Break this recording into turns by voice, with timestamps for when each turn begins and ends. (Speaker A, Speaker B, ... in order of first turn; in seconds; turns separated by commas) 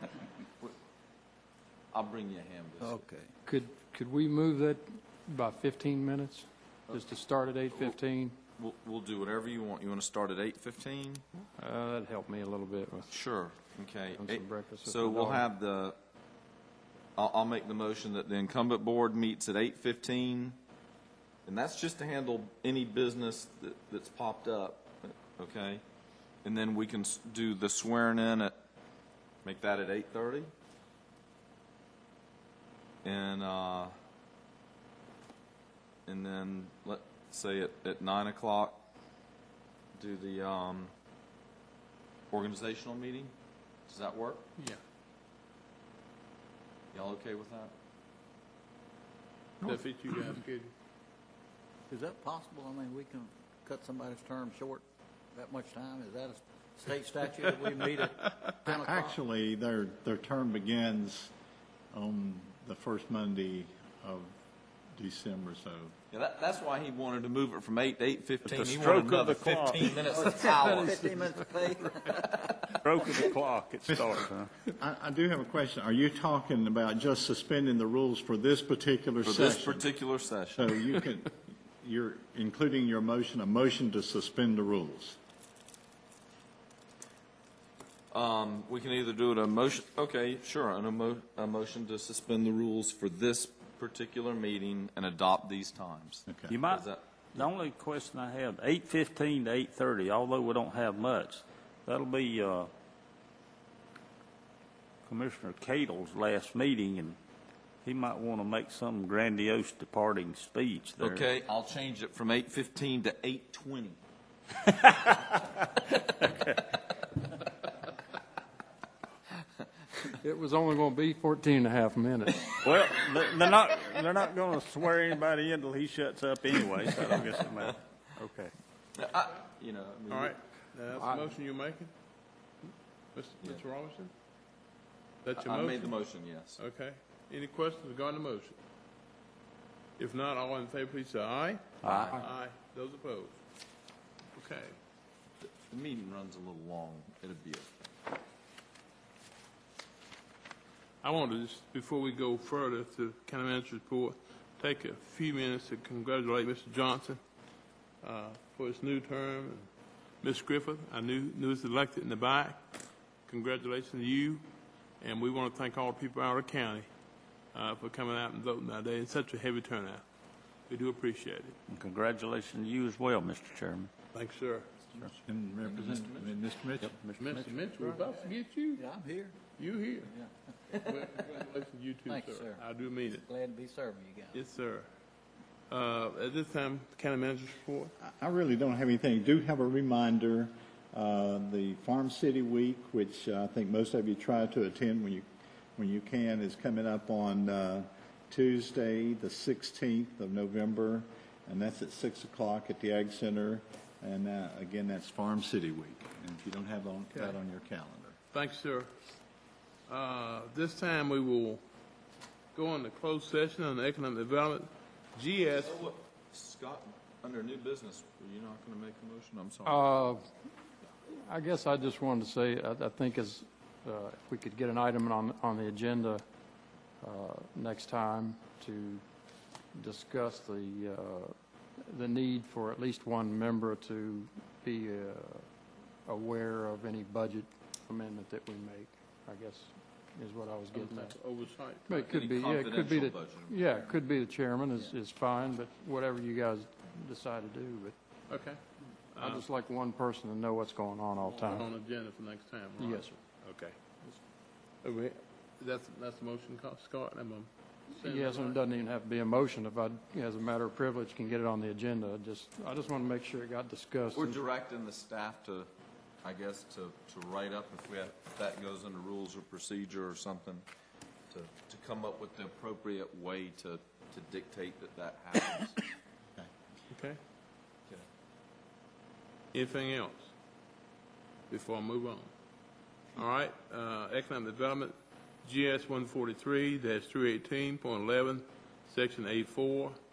Speaker A: 1.9-3.0, Speaker B: 2.8-3.3, Speaker C: 3.4-8.4, Speaker A: 8.6-11.2, Speaker C: 11.6-13.1, Speaker A: 13.1-15.9, Speaker C: 14.1-15.5, Speaker A: 17.1-20.6, Speaker A: 21.4-25.8, Speaker A: 26.4-28.5, Speaker A: 29.4-30.5, Speaker A: 33.0-33.9, Speaker A: 36.1-38.8, Speaker A: 39.9-40.9, Speaker A: 42.3-43.3, Speaker A: 43.9-44.5, Speaker A: 46.9-47.7, Speaker D: 49.6-50.7, Speaker B: 51.9-59.1, Speaker E: 58.6-61.3, Speaker E: 61.9-64.4, Speaker E: 64.9-65.9, Speaker A: 66.1-71.4, Speaker F: 68.5-70.0, Speaker B: 70.1-72.1, Speaker A: 72.0-72.7, Speaker F: 72.7-74.5, Speaker E: 73.9-74.2, Speaker E: 74.8-79.9, Speaker A: 79.2-81.0, Speaker E: 80.5-85.2, Speaker A: 88.1-97.0, Speaker E: 96.3-96.5, Speaker F: 96.5-102.7, Speaker F: 105.0-107.2, Speaker F: 107.8-111.2, Speaker A: 111.0-114.0, Speaker F: 114.6-116.6, Speaker C: 120.1-122.6, Speaker F: 122.6-127.8, Speaker C: 128.2-128.5, Speaker A: 128.9-130.3, Speaker D: 130.1-131.9, Speaker C: 130.9-131.3, Speaker D: 133.1-134.1, Speaker D: 135.2-136.0, Speaker A: 135.3-136.6, Speaker D: 136.6-138.5, Speaker D: 140.0-143.4, Speaker F: 141.8-142.1, Speaker A: 141.8-142.2, Speaker D: 144.3-144.8, Speaker A: 145.4-147.9, Speaker D: 151.0-157.2, Speaker D: 158.0-159.7, Speaker D: 160.2-162.6, Speaker D: 163.3-164.4, Speaker D: 165.0-166.9, Speaker D: 167.5-170.0, Speaker D: 170.7-171.5, Speaker F: 171.7-173.9, Speaker D: 174.1-174.7, Speaker E: 175.2-176.9, Speaker A: 175.6-176.3, Speaker F: 176.8-177.4, Speaker D: 177.2-178.9, Speaker B: 178.8-179.4, Speaker D: 179.6-180.2, Speaker D: 180.7-183.2, Speaker A: 180.7-181.2, Speaker B: 182.1-182.6, Speaker B: 183.2-184.4, Speaker D: 184.3-184.9, Speaker D: 185.7-187.9, Speaker E: 188.0-208.2, Speaker D: 208.3-208.9, Speaker D: 209.9-211.6, Speaker D: 212.5-215.8, Speaker A: 215.6-220.0, Speaker C: 219.6-220.3, Speaker C: 221.1-226.2, Speaker C: 227.0-229.0, Speaker C: 229.7-235.5, Speaker C: 236.0-241.2, Speaker D: 240.7-242.2, Speaker C: 241.9-247.9, Speaker A: 242.1-244.0, Speaker D: 248.3-248.6, Speaker D: 249.1-249.4, Speaker C: 249.2-251.7, Speaker D: 251.2-253.8, Speaker C: 252.8-253.2, Speaker D: 254.8-258.6, Speaker C: 258.0-264.4, Speaker A: 264.1-265.7, Speaker A: 266.2-270.6, Speaker A: 271.3-275.8, Speaker D: 276.9-277.2, Speaker D: 279.5-280.3, Speaker D: 281.5-282.3, Speaker D: 283.1-290.0